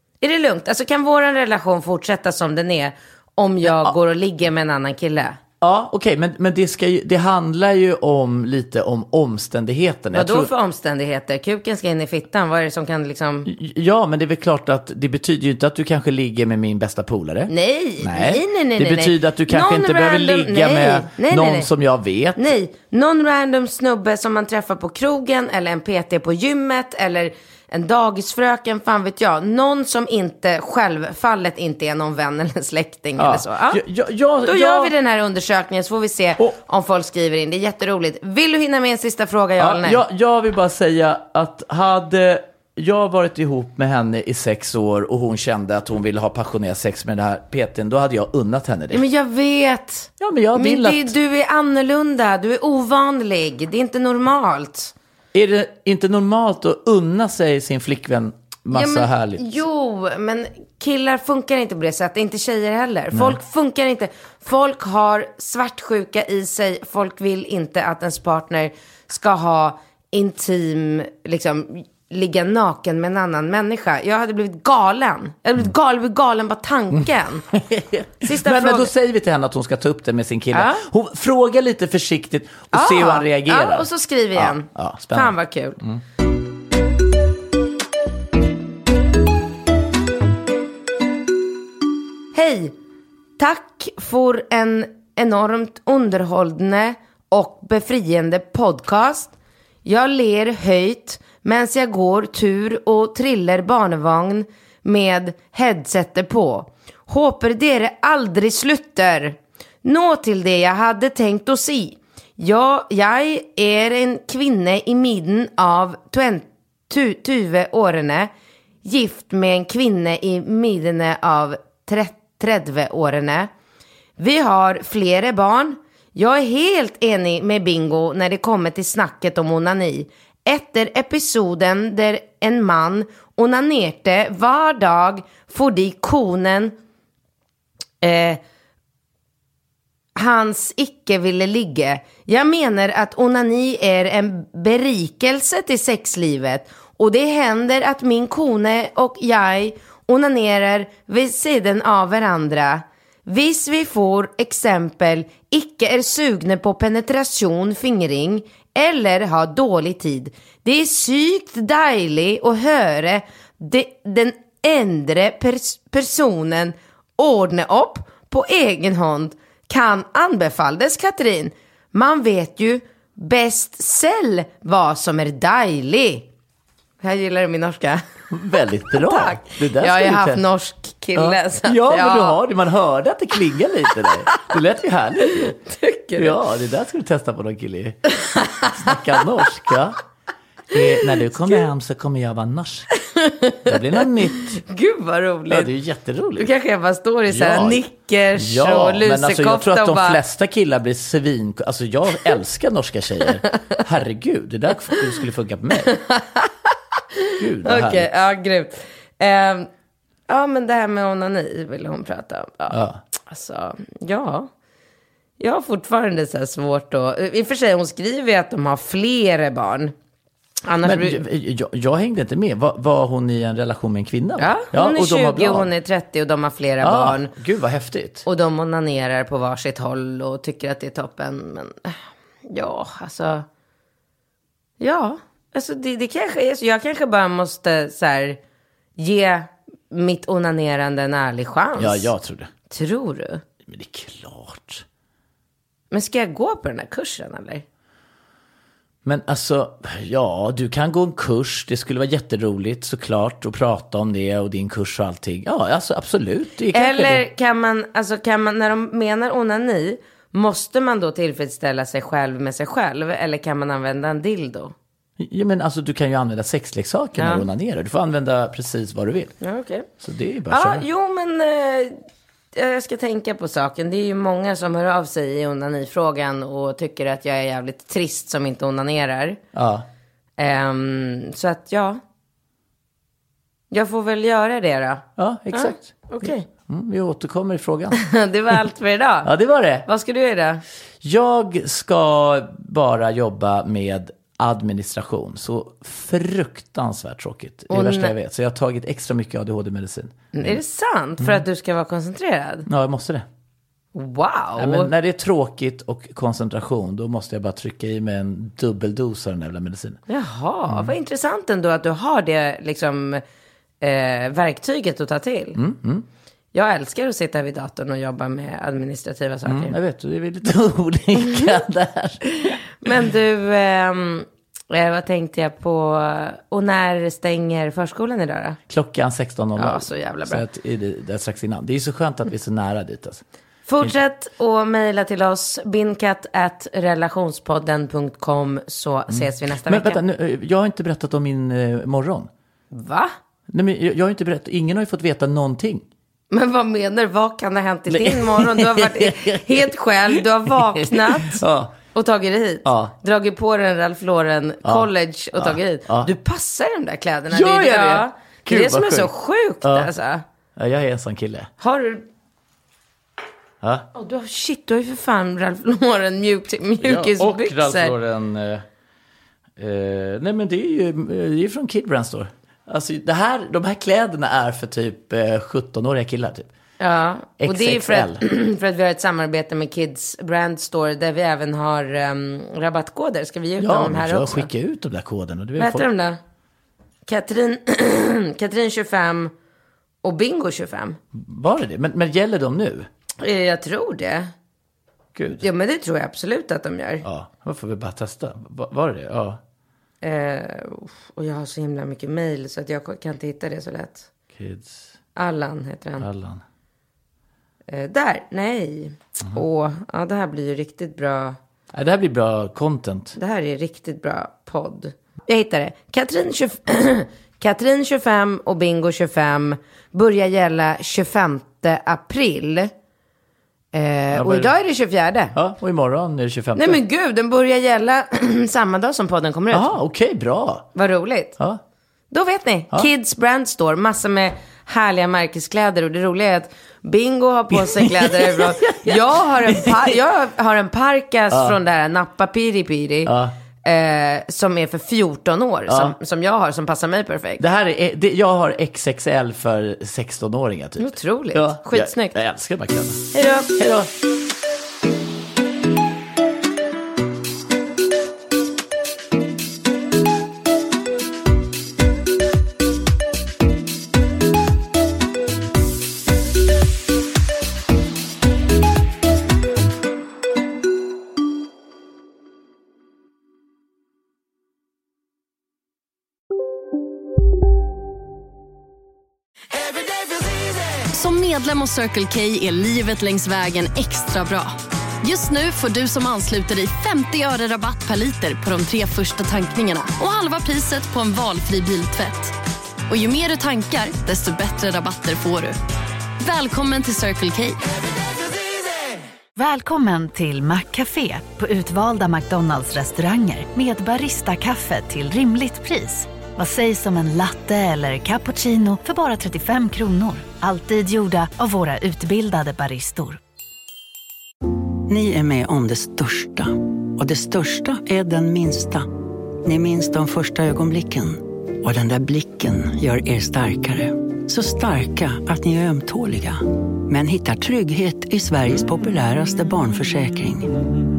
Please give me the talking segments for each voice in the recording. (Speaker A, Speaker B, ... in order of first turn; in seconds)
Speaker A: 0.2-5.4, 10.1-13.5, 17.5-21.7, 22.4-33.8, 34.4-40.0, 48.9-54.9, 58.7-77.5, 78.2-78.9, 80.5-80.8, 82.7-85.8, 92.3-92.7, 93.4-99.3, 99.8-118.3, 118.8-123.5, 124.2-136.7, 138.0-138.4, 140.2-176.3, 177.0-178.0, 178.9-182.4, 185.3-186.4, 188.2-188.9, 193.0-195.7, 196.4-200.2, 205.8-206.7, 207.3-209.7, 210.3-214.5, 215.4-219.9, 220.6-221.2, 224.4-227.3, 228.2-233.4, 234.8-238.4, 239.0-242.1, 242.7-243.4, 245.9-247.6, 256.7-264.7, 267.2-267.5, 269.4-269.9, 270.5-272.0, 272.5-279.4, 280.4-282.0, 283.7-286.4, 288.0-289.3, 289.8-290.6, 297.7-298.1, 300.3-302.7, 303.9-304.9, 310.1-313.2, 313.8-315.6, 316.5-319.8, 322.4-328.6, 329.6-330.4, 333.7-340.0, 342.7-343.1, 346.3-351.4, 351.9-360.2, 361.6-362.0, 363.9-367.9, 376.8-384.5, 385.6-386.2, 387.1-389.3, 390.0-391.0, 393.2-394.3, 395.4-397.0, 400.0-404.1, 405.1-406.1, 407.7-411.4, 413.1-422.7, 423.7-425.3, 426.5-429.8, 430.7-431.4, 432.1-443.1, 443.6-447.4, 450.8-452.1, 453.1-453.5
Speaker B: 3.6-3.9, 5.6-10.5, 13.4-22.5, 33.2-34.9, 39.6-49.0, 50.2-51.1, 55.3-59.4, 77.5-86.0, 178.3-180.4, 181.1-185.6, 186.2-188.0, 188.7-190.0, 190.7-192.9, 193.7-194.6, 195.5-196.5, 197.3-197.8, 198.3-205.9, 207.4-208.2, 212.7-213.0, 220.8-225.7, 226.8-228.2, 241.8-242.5, 243.7-244.8, 249.0-257.2, 265.2-269.4, 270.0-270.8, 279.5-279.9, 285.2-288.0, 289.2-289.9, 291.0-300.6, 302.7-303.2, 304.6-310.0, 315.5-316.1, 319.4-322.9, 328.7-333.2, 339.1-342.3, 343.5-345.9, 347.9-351.8, 352.6-352.9, 354.6-356.1, 357.3-359.1, 359.6-359.9, 360.6-361.5, 363.6-363.9, 366.8-368.6, 369.6-376.5, 377.4-378.2, 383.6-385.9, 391.1-392.9, 395.1-395.4, 397.0-399.4, 404.3-404.8, 406.0-406.4, 411.7-413.2, 424.1-424.5, 425.3-426.8, 429.5-430.7, 437.5-439.9, 441.3-441.6, 443.1-443.3, 445.7-445.9, 447.4-453.9
Speaker C: 480.9-492.4, 492.9-495.6, 496.2-497.6
Speaker D: 499.4-513.2
Speaker E: 514.9-518.9, 519.4-530.6